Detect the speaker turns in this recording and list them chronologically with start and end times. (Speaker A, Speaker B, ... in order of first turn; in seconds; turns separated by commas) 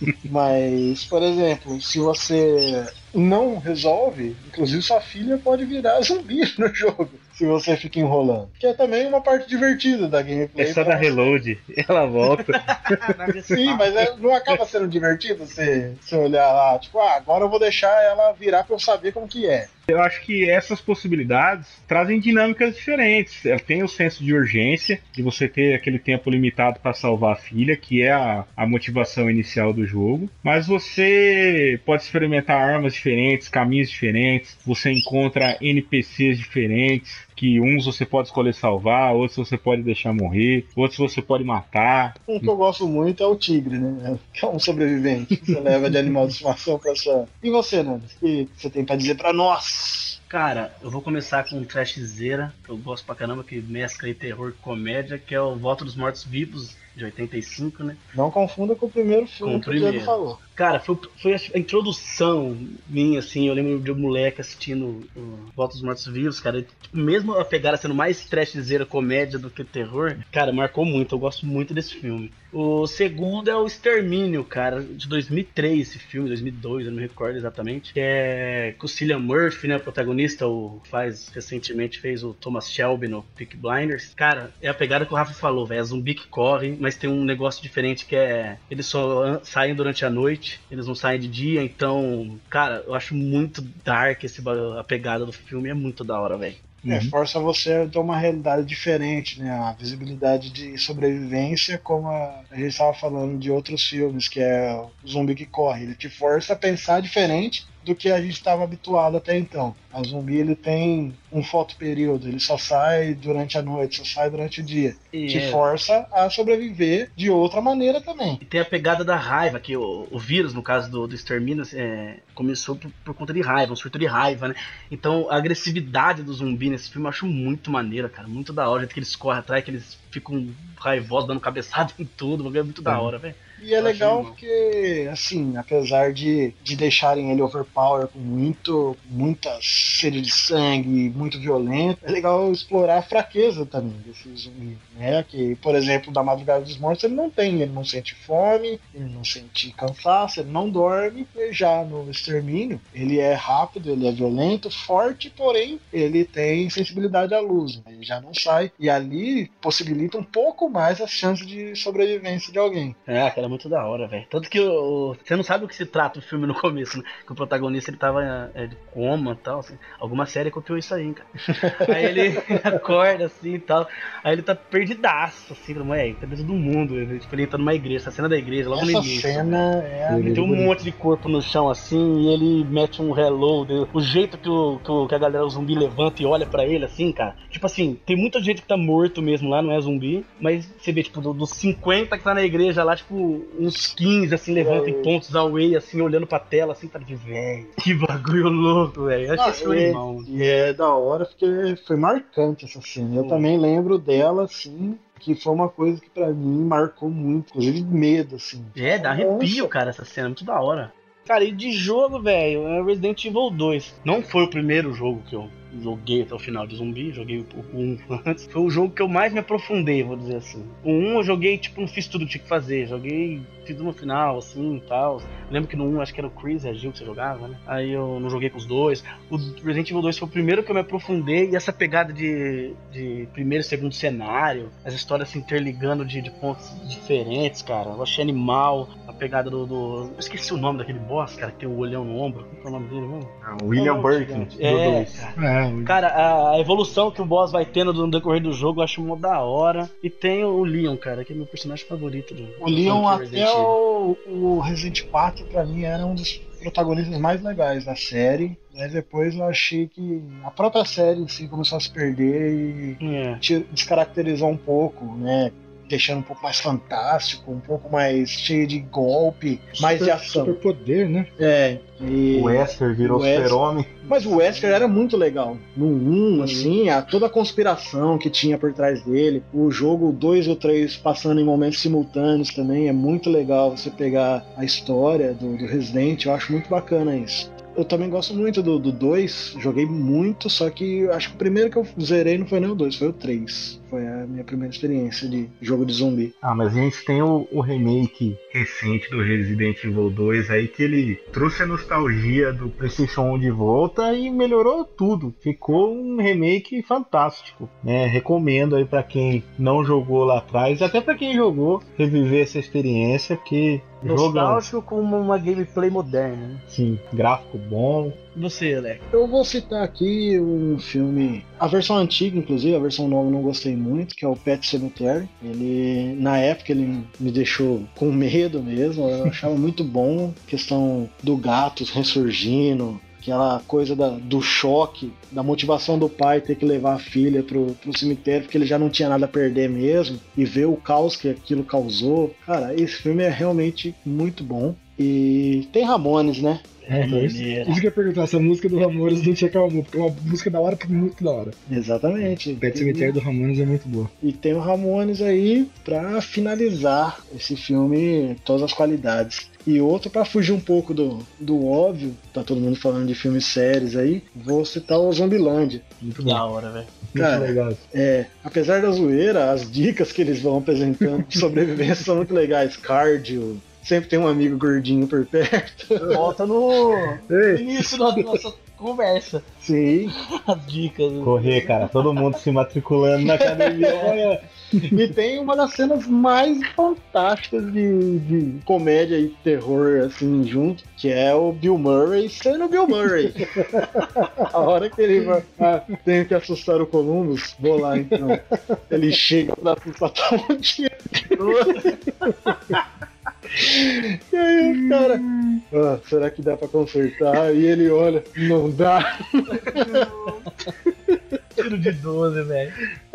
Speaker A: 0.2-11.4, Speaker B: 10.6-13.0, Speaker C: 12.5-14.0, Speaker A: 13.5-19.7, Speaker B: 19.9-42.5, Speaker A: 42.3-50.2, Speaker C: 50.3-58.0, Speaker A: 58.1-60.4, Speaker C: 59.4-96.6, Speaker A: 96.9-118.4, Speaker C: 115.1-115.6, Speaker C: 118.4-134.4, Speaker A: 133.6-163.0, Speaker C: 163.1-179.7, Speaker A: 171.5-172.4, Speaker A: 178.7-180.7, Speaker D: 180.1-180.7, Speaker C: 180.2-200.3, Speaker A: 194.6-195.1, Speaker A: 199.4-209.7, Speaker C: 203.2-203.5, Speaker C: 208.8-253.8, Speaker B: 243.4-245.2, Speaker D: 245.3-246.0, Speaker A: 252.6-270.6, Speaker C: 263.0-263.4, Speaker D: 269.8-271.3, Speaker A: 271.4-296.3, Speaker B: 272.3-274.0, Speaker C: 274.1-274.8, Speaker C: 276.3-276.7, Speaker B: 296.4-314.6, Speaker C: 314.0-316.6, Speaker B: 316.7-318.2, Speaker C: 318.3-319.0, Speaker A: 319.1-346.7, Speaker C: 346.9-347.8, Speaker D: 346.9-351.5, Speaker A: 351.7-353.2, Speaker D: 352.6-354.1, Speaker A: 354.2-366.0, Speaker D: 366.0-366.4, Speaker C: 366.2-366.9, Speaker D: 367.1-367.8, Speaker A: 367.1-376.3, Speaker C: 376.0-379.4, Speaker D: 377.3-378.4, Speaker A: 379.6-380.1, Speaker C: 380.2-382.4, Speaker B: 381.2-384.4, Speaker A: 383.4-384.1, Speaker C: 383.6-384.2, Speaker A: 384.9-393.6, Speaker A: 394.4-401.9, Speaker D: 398.1-398.4, Speaker C: 401.3-402.3, Speaker A: 403.5-410.3, Speaker D: 404.6-405.6, Speaker C: 409.5-410.5, Speaker C: 411.6-412.8